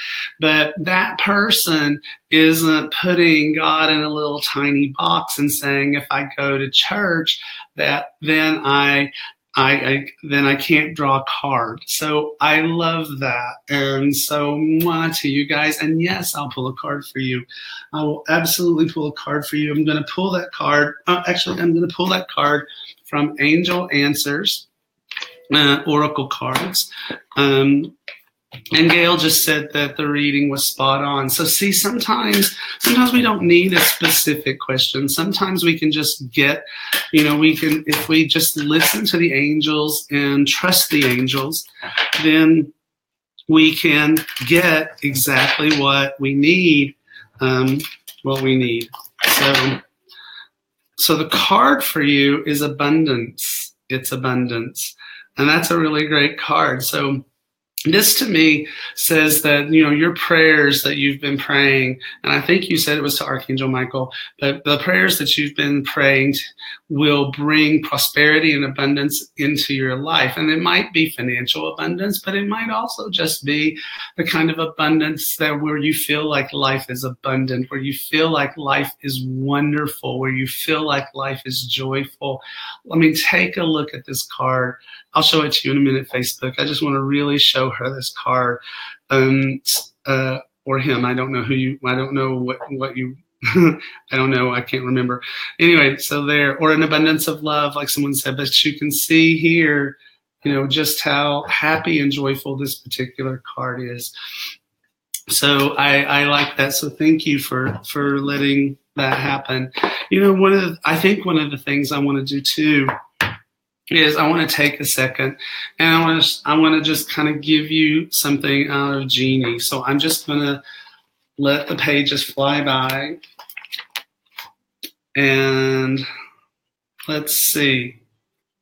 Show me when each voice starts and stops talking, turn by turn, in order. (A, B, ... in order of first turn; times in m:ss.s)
0:00.4-0:24.7 A
0:25.5-0:28.0 A
0:28.7-0:42.7 A
0:43.5-0:49.8 A
0:51.0-0:57.2 A
0:57.9-1:44.1 A
1:45.3-1:52.9 A
1:53.9-2:00.6 A
2:01.4-2:03.2 A
2:05.2-2:06.1 A
2:07.1-2:08.0 A